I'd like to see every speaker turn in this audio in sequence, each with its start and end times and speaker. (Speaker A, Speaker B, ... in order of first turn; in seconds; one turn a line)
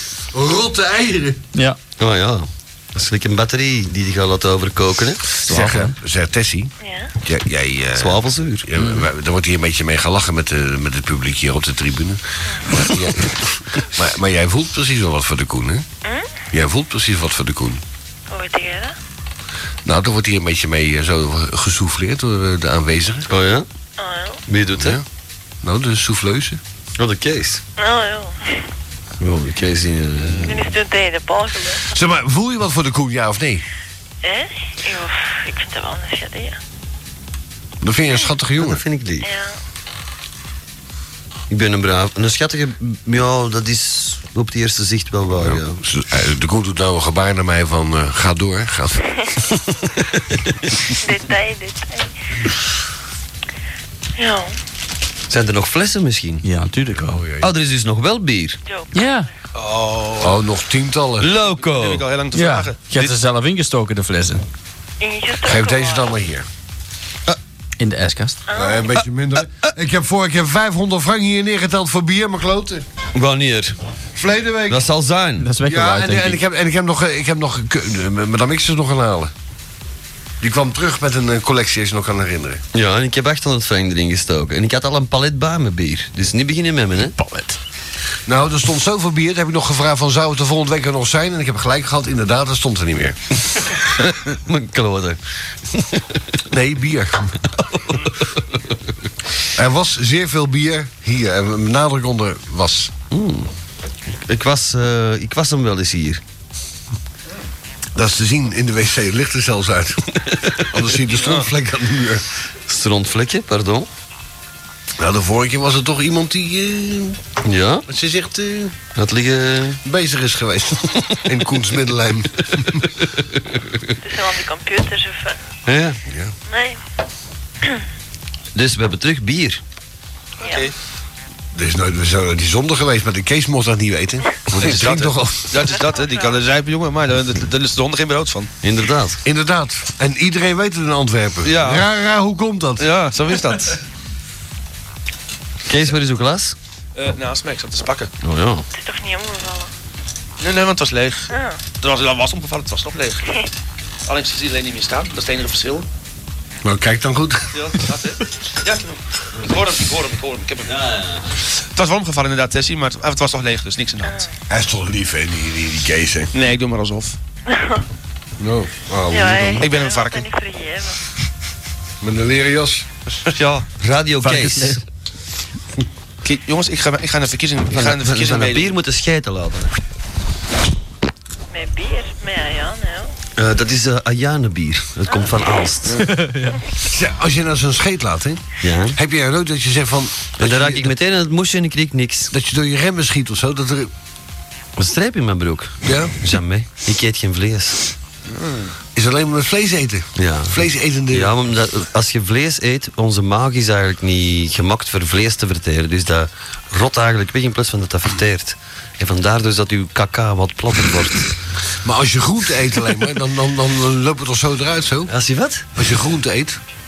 Speaker A: 0.3-1.4
Speaker B: 2.0-5.4
Speaker C: 5.5-6.0
Speaker A: 5.5-15.9
Speaker D: 6.8-7.1
Speaker B: 8.0-8.7
Speaker D: 16.1-16.3
Speaker A: 16.5-17.8
Speaker D: 18.3-18.9
Speaker A: 19.9-23.3
Speaker B: 23.3-23.7
Speaker D: 24.0-24.4
Speaker B: 24.5-25.0
Speaker A: 24.8-25.0
Speaker A: 25.6-26.6
Speaker B: 27.0-27.6
Speaker D: 27.8-28.6
Speaker B: 29.2-30.6
Speaker D: 30.4-31.9
Speaker A: 31.9-33.6
Speaker D: 34.2-36.6
Speaker A: 37.8-38.8
Speaker B: 38.6-39.3
Speaker D: 39.2-39.6
Speaker B: 41.5-45.8
Speaker A: 45.4-49.0
Speaker D: 50.9-52.1
Speaker D: 54.2-54.6
Speaker B: 55.3-56.5
Speaker C: 56.4-57.2
Speaker A: 57.0-57.5
Speaker B: 57.4-58.6
Speaker D: 58.6-59.1
Speaker C: 58.9-59.3
Speaker E: 59.5-60.4
Speaker A: 60.2-61.3
Speaker B: 61.2-62.1
Speaker E: 61.4-63.2
Speaker C: 62.3-64.5
Speaker D: 65.0-66.1
Speaker A: 65.4-66.5
Speaker C: 67.8-68.4
Speaker D: 68.5-68.9
Speaker A: 68.5-72.8
Speaker B: 73.1-73.8
Speaker A: 74.2-74.9
Speaker B: 74.7-75.5
Speaker C: 75.4-76.4
Speaker A: 75.6-79.3
Speaker A: 80.4-82.6
Speaker B: 82.7-87.2
Speaker C: 87.2-87.6
Speaker A: 88.3-93.2
Speaker B: 94.0-96.2
Speaker A: 96.5-97.4
Speaker B: 97.6-98.3
Speaker A: 99.5-102.9
Speaker B: 103.1-103.5
Speaker B: 104.2-106.2
Speaker A: 108.0-110.0
Speaker A: 110.7-112.2
Speaker B: 112.7-113.9
Speaker A: 115.0-117.2
Speaker B: 117.4-117.9
Speaker A: 117.9-118.8
Speaker B: 119.0-119.8
Speaker A: 119.8-122.9
Speaker D: 124.0-125.4
Speaker B: 125.7-126.0
Speaker A: 126.1-126.3
Speaker D: 126.5-126.8
Speaker B: 128.6-129.6
Speaker E: 130.4-130.7
Speaker D: 130.4-130.7
Speaker A: 131.5-135.6
Speaker B: 134.5-135.1
Speaker E: 134.6-138.5
Speaker D: 135.6-136.4
Speaker B: 138.6-139.2
Speaker A: 139.2-142.9
Speaker E: 141.4-141.9
Speaker E: 142.8-143.8
Speaker B: 145.7-146.6
Speaker E: 147.0-148.1
Speaker B: 148.2-148.7
Speaker D: 148.7-149.7
Speaker E: 150.4-153.2
Speaker D: 151.3-151.6
Speaker E: 154.1-155.9
Speaker A: 156.6-157.7
Speaker E: 157.5-160.9
Speaker B: 160.7-161.3
Speaker E: 161.7-164.3
Speaker D: 164.0-164.3
Speaker A: 164.5-166.3
Speaker E: 166.3-167.2
Speaker D: 167.5-167.8
Speaker A: 168.4-169.7
Speaker D: 169.1-171.0
Speaker E: 169.6-170.3
Speaker A: 172.0-172.9
Speaker E: 173.3-173.7
Speaker B: 173.8-174.8
Speaker C: 174.2-174.8
Speaker E: 176.2-178.7
Speaker B: 177.7-179.7
Speaker D: 181.5-183.1
Speaker B: 183.4-186.0
Speaker C: 186.0-186.6
Speaker A: 186.8-188.4
Speaker B: 188.6-189.0
Speaker A: 188.9-190.9
Speaker B: 190.4-192.3
Speaker A: 192.3-193.9
Speaker B: 194.8-197.8
Speaker A: 195.8-196.2
Speaker E: 198.3-198.7
Speaker A: 198.9-201.4
Speaker B: 200.2-211.3
Speaker A: 211.8-215.1
Speaker B: 215.1-215.7
Speaker A: 215.8-216.6